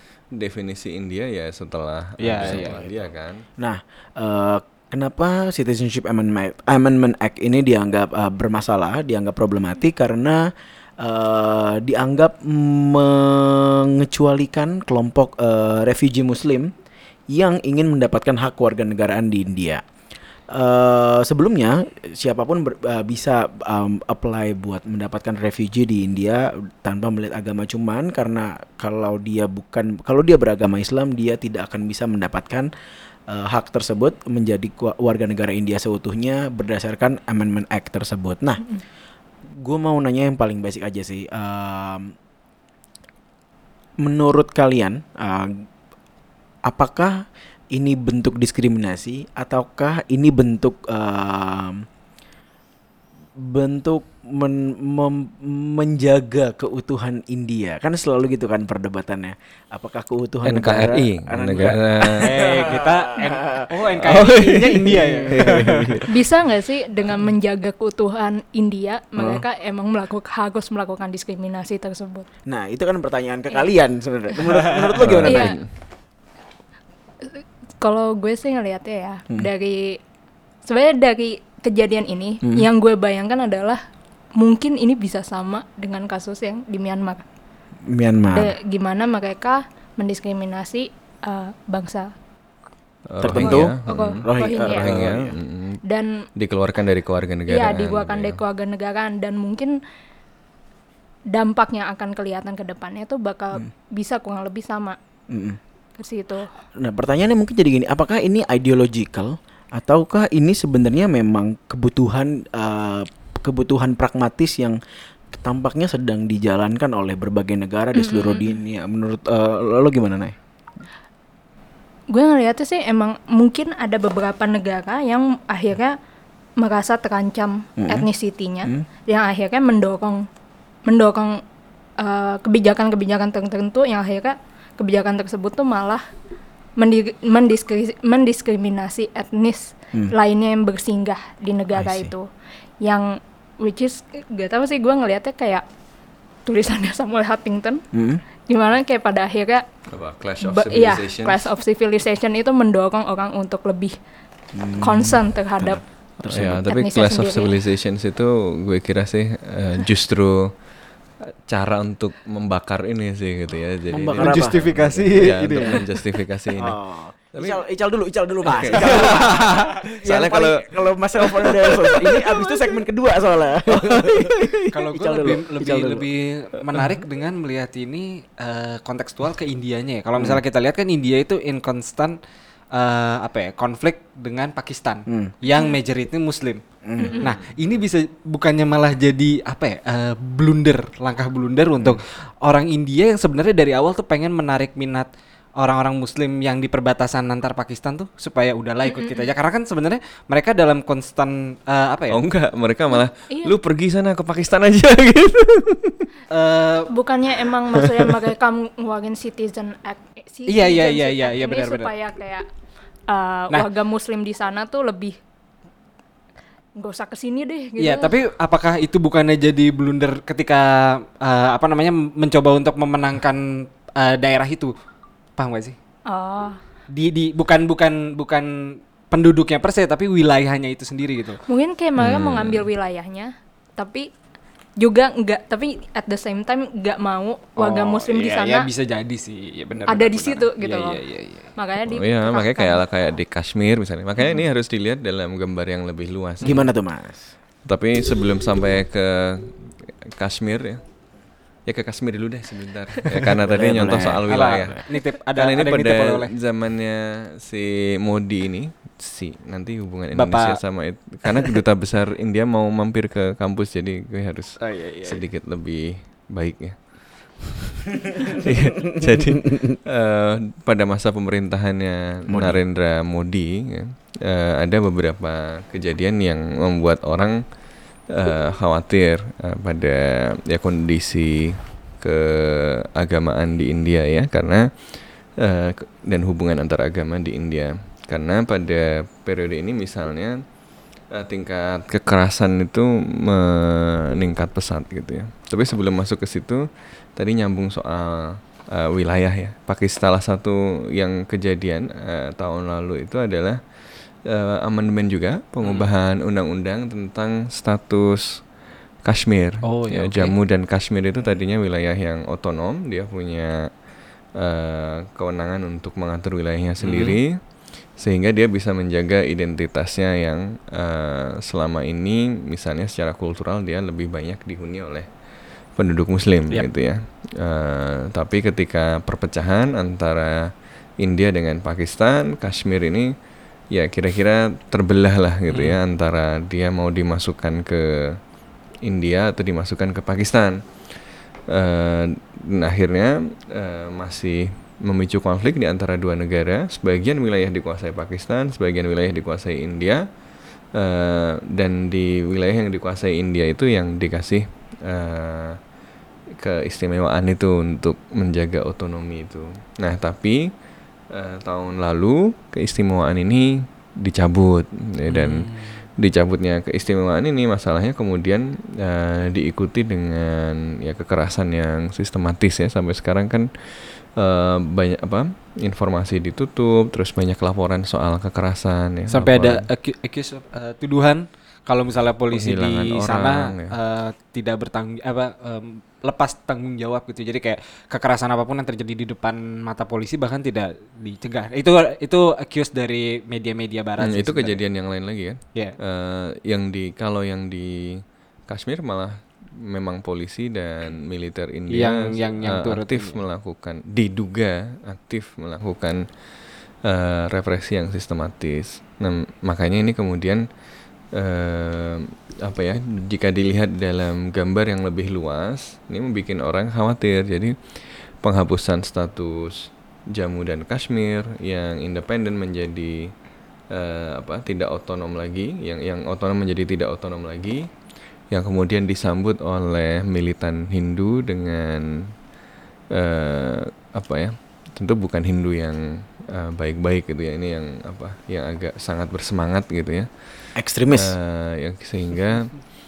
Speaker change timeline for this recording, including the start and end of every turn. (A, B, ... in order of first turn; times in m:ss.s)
0:00.3-0:03.4 A
0:02.2-0:02.8 B
0:02.4-0:02.9 C
0:03.6-0:10.4 C
0:11.0-0:16.7 C
0:17.3-0:19.8 C
0:20.5-0:32.7 C
0:33.3-0:38.6 C
0:39.6-0:42.1 C
0:44.0-0:45.6 C
0:46.6-0:47.2 C
0:47.7-0:51.8 C
0:53.4-1:03.7 C
1:00.4-1:02.2 A
1:02.2-1:06.0 B
1:04.0-1:06.1 A
1:04.9-1:05.4 C
1:06.1-1:12.3 D
1:09.2-1:09.4 C
1:12.4-1:15.6 C
1:15.0-1:15.6 A
1:15.2-1:15.6 D
1:17.2-1:20.0 D
1:20.6-1:23.8 D
1:24.4-1:27.2 D
1:27.9-1:28.5 C
1:28.3-1:32.1 D
1:33.1-1:35.8 A
1:33.2-1:35.3 C
1:33.4-1:34.8 D
1:35.9-1:36.2 D
1:36.4-1:38.4 A
1:37.5-1:39.8 D
1:41.3-1:45.0 D
1:45.3-1:45.6 C
1:46.0-1:46.5 D
1:46.8-1:54.8 C
1:55.3-2:00.4 C
1:58.0-1:58.5 D
2:02.1-2:06.0 D
2:06.6-2:10.3 D
2:07.8-2:08.1 C
2:10.9-2:11.4 D
2:12.0-2:16.0 D
2:16.8-2:22.3 D
2:21.7-2:22.1 C
2:22.8-2:25.6 D
2:26.4-2:27.8 D
2:27.9-2:28.2 C
2:28.5-2:29.6 D
2:29.9-2:31.4 A
2:30.4-2:33.9 D
2:34.5-2:36.6 C
2:34.8-2:35.8 D
2:36.3-2:40.5 A
2:36.6-2:37.6 D
2:41.3-2:46.8 A
2:43.9-2:44.6 C
2:44.2-2:45.8 B
2:46.5-2:56.0 C
2:47.3-2:47.6 A
2:48.4-2:49.2 A
2:48.7-2:49.8 B
2:49.9-2:52.6 A
2:53.7-2:54.6 A
2:54.7-3:02.2 B
3:02.7-3:06.6 B
3:05.1-3:05.3 C
3:06.8-3:07.2 C
3:07.2-3:15.1 B
3:15.6-3:22.2 B
3:18.9-3:19.2 D
3:22.1-3:26.0 A
3:22.9-3:23.5 D
3:26.3-3:26.9 B
3:26.9-3:32.4 D
3:30.5-3:31.9 B
3:33.1-3:35.2 D
3:36.8-3:38.1 D
3:37.8-3:44.7 B
3:45.4-3:45.8 B
3:46.1-3:46.6 D
3:46.9-3:48.5 B
3:49.1-3:51.4 B
3:51.5-3:54.1 D
3:52.0-3:52.7 A
3:54.8-3:58.7 D
3:57.6-4:01.5 B
3:59.9-4:01.0 D
4:01.6-4:02.8 D
4:01.9-4:06.6 A
4:06.4-4:07.3 C
4:07.6-4:10.8 A
4:11.6-4:14.8 A
4:13.4-4:14.8 C
4:14.3-4:16.3 B
4:15.3-4:37.4 A
4:20.1-4:20.6 B
4:24.6-4:25.2 B
4:32.3-4:32.6 C
4:38.1-4:44.7 A
4:45.4-4:50.4 A
4:51.1-4:56.6 A
4:57.2-5:03.6 A
5:04.2-5:08.4 A
5:05.6-5:05.9 B
5:09.0-5:13.7 A
5:09.6-5:10.3 B
5:14.4-5:17.4 A
5:16.8-5:17.2 B
5:18.0-5:25.1 A
5:25.8-5:30.5 A
5:31.0-5:33.1 A
5:33.7-5:38.2 A
5:35.5-5:35.8 B
5:38.8-5:40.6 A
5:41.5-5:50.0 A
5:50.7-5:55.6 A
5:56.4-6:00.4 A
6:01.1-6:05.4 A
6:05.1-6:05.8 B
6:06.0-6:19.6 A
6:19.1-6:34.6 B
6:22.3-6:23.8 A
6:34.0-6:46.0 A
6:41.7-6:43.2 B
6:46.8-6:50.4 A
6:51.1-7:03.1 A
7:03.7-7:07.6 A
7:08.3-7:12.1 A
7:12.9-7:20.1 A
7:20.6-7:21.2 C
7:20.9-7:22.6 A